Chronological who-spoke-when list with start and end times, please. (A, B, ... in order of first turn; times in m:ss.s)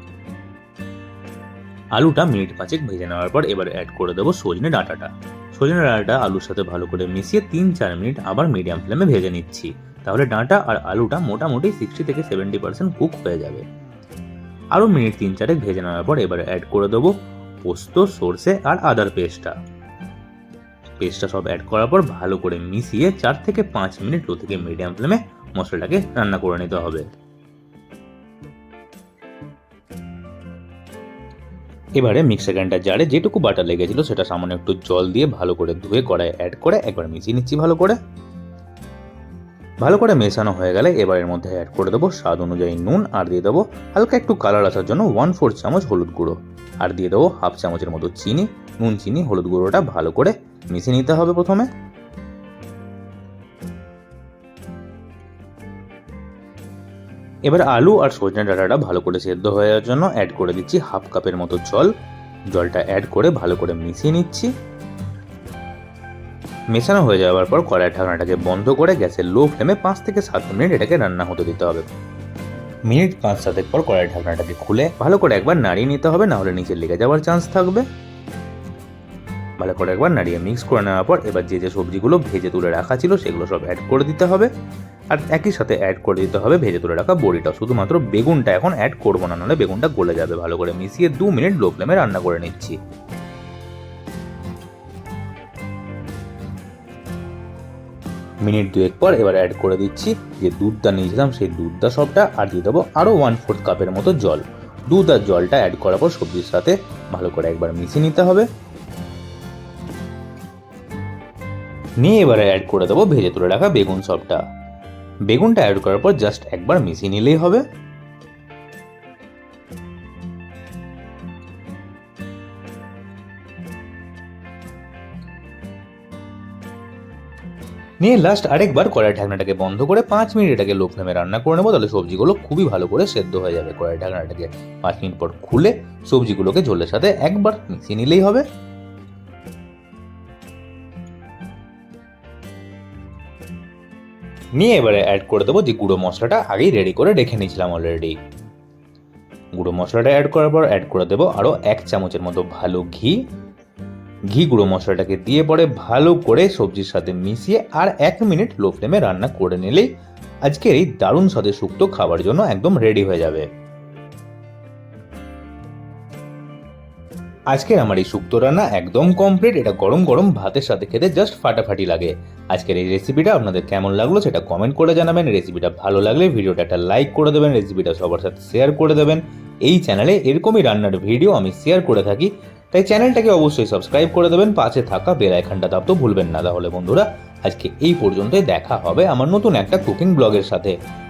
0:02.0-0:13.6 A
0:14.7-0:17.1 A
0:17.6-0:19.5 A
0:21.0-0:27.0 A
0:32.0-0:38.0 A
0:39.8-0:51.7 A
0:57.4-1:01.9 A
1:02.5-1:04.5 A
1:06.7-1:11.9 A
1:12.9-1:17.9 A
1:19.6-1:24.5 A
1:25.1-1:32.8 A
1:38.4-1:48.5 A
1:52.0-1:54.4 A
1:55.3-1:57.6 A
2:08.0-2:18.4 A
2:24.6-2:28.2 A
2:29.5-2:33.2 A
2:34.3-2:39.9 A
2:40.4-2:43.5 A
2:47.5-3:10.7 A